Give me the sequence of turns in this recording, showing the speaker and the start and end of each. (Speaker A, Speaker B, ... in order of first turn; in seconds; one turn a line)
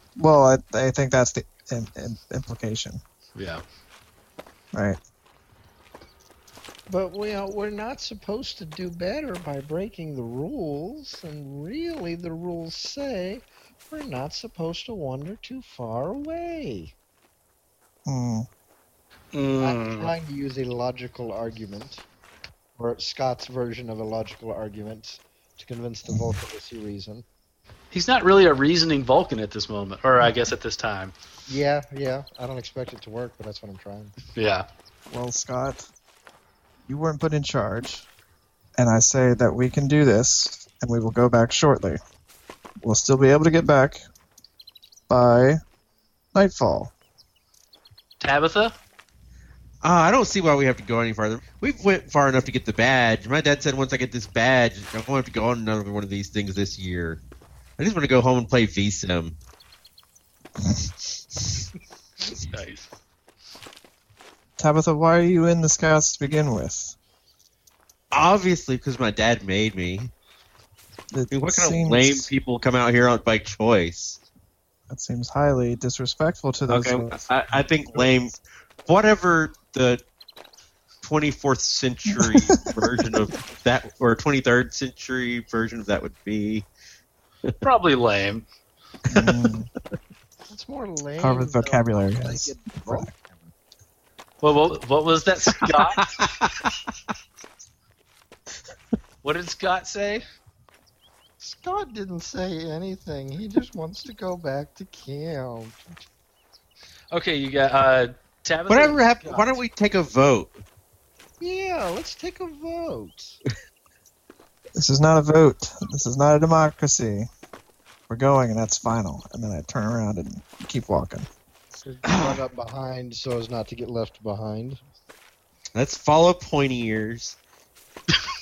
Speaker A: 0.2-3.0
Speaker B: 3.4-3.6
Speaker A: 4.7-5.0
Speaker C: 6.9-16.9
Speaker A: 18.1-18.5
Speaker B: 19.3-20.1
Speaker C: 19.6-22.0
Speaker C: 22.8-27.2
Speaker B: 27.9-31.1
Speaker C: 31.5-34.1
Speaker B: 34.4-34.6
Speaker A: 35.1-35.8
Speaker A: 36.9-38.0
Speaker A: 38.8-42.0
Speaker A: 42.8-44.0
Speaker A: 45.1-45.6
Speaker A: 46.3-46.9
Speaker B: 48.2-48.7
Speaker D: 49.8-57.2
Speaker D: 57.8-59.4
Speaker B: 62.4-62.9
Speaker A: 64.6-66.9
Speaker D: 68.1-70.1
Speaker A: 71.1-72.3
Speaker D: 71.3-74.2
Speaker A: 74.9-77.2
Speaker D: 76.7-78.3
Speaker D: 78.9-80.0
Speaker D: 81.0-86.7
Speaker A: 82.1-82.7
Speaker B: 87.6-88.5
Speaker A: 89.1-89.7
Speaker C: 90.5-93.5
Speaker A: 91.2-93.1
Speaker B: 94.4-96.1
Speaker D: 95.7-96.7
Speaker B: 99.2-100.2
Speaker C: 101.4-105.9
Speaker B: 107.1-109.4
Speaker D: 108.7-110.5
Speaker C: 111.4-113.4
Speaker A: 114.8-117.3
Speaker A: 118.1-121.3
Speaker C: 121.8-124.8
Speaker D: 122.0-122.4
Speaker D: 125.7-127.3